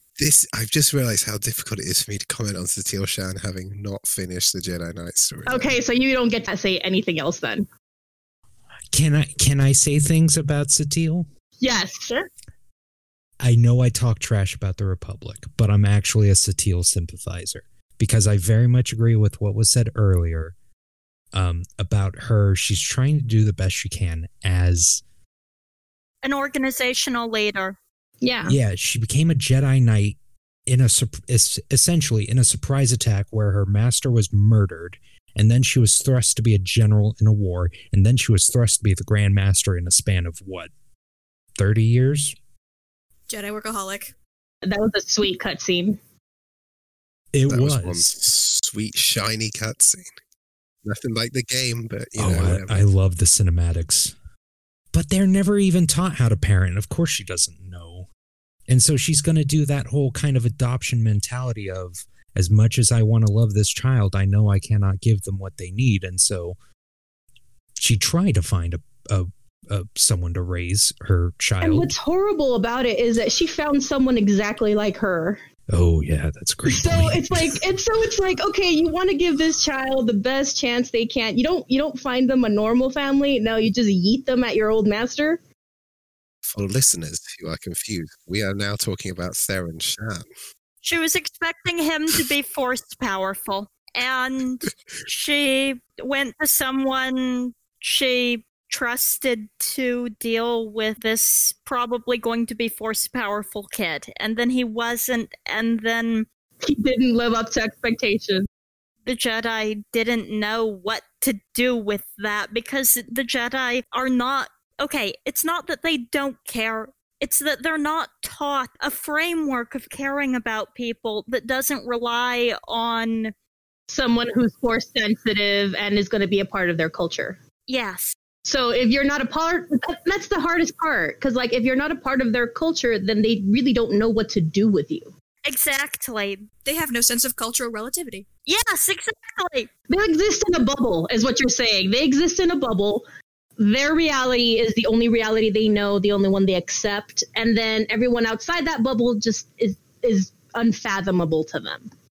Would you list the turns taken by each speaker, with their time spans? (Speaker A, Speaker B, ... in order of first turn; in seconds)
Speaker A: 0.2-5.8, 47.5-50.1, 50.8-52.9, 86.4-90.3
Speaker B: 5.5-7.7, 11.6-12.1, 28.2-28.6, 44.6-46.0, 71.6-75.4, 76.7-85.4, 106.6-108.5, 123.9-127.4, 128.4-135.1, 139.9-143.1, 143.6-151.9
Speaker C: 8.9-11.3, 13.4-20.5, 21.3-25.0, 28.4-30.2, 30.7-40.7, 41.6-42.4, 47.3-48.1, 52.2-54.1, 54.9-58.1, 58.7-66.5, 67.8-72.0, 75.7-77.6
Speaker D: 26.2-27.8, 90.8-106.2, 109.0-123.3, 127.7-128.1, 135.4-136.4, 138.4-139.7
Speaker E: 43.3-44.1, 136.6-138.2